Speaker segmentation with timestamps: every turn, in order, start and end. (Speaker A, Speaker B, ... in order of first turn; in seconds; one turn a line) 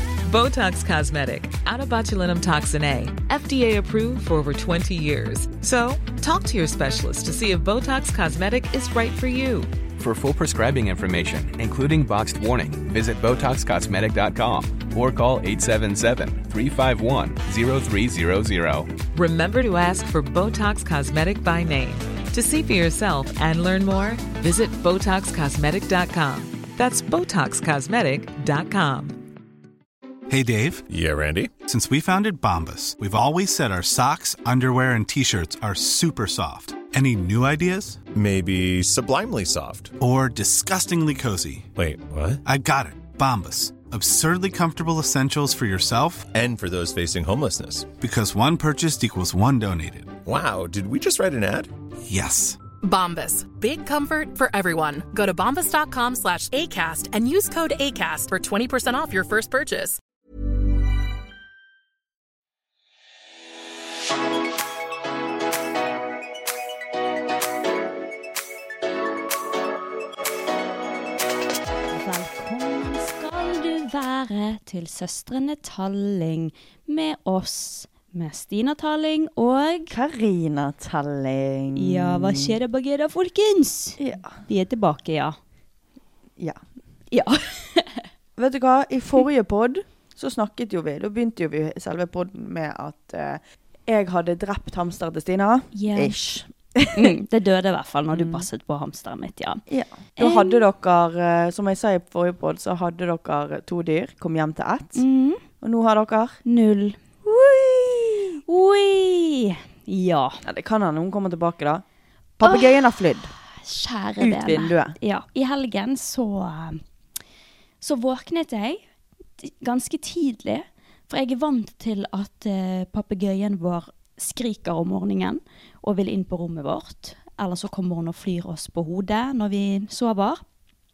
Speaker A: 0.3-9.7
Speaker B: 10.0-18.9
Speaker A: 19.1-29.2
Speaker C: 30.3-30.9
Speaker D: 30.9-31.5
Speaker C: 31.6-38.0
Speaker D: 38.1-39.9
Speaker C: 40.0-41.7
Speaker D: 41.8-42.4
Speaker C: 42.5-46.3
Speaker D: 46.3-47.9
Speaker C: 48.0-50.2
Speaker D: 50.2-51.7
Speaker C: 52.0-52.6
Speaker E: 52.8-60.0
Speaker F: 71.9-80.0
Speaker G: 79.9-82.5
Speaker F: 81.7-85.4
Speaker G: 84.0-84.3
Speaker F: 87.1-88.0
Speaker G: 88.4-97.2
Speaker F: 95.7-96.2
Speaker F: 97.0-99.6
Speaker G: 98.1-98.5
Speaker G: 99.7-105.0
Speaker F: 100.2-100.6
Speaker F: 105.0-105.4
Speaker G: 105.6-106.4
Speaker F: 106.5-107.0
Speaker G: 107.2-108.4
Speaker F: 108.5-110.4
Speaker G: 110.4-111.8
Speaker G: 112.4-113.3
Speaker F: 112.4-113.0
Speaker F: 113.6-116.8
Speaker G: 114.2-115.0
Speaker F: 117.8-118.8
Speaker F: 119.4-130.4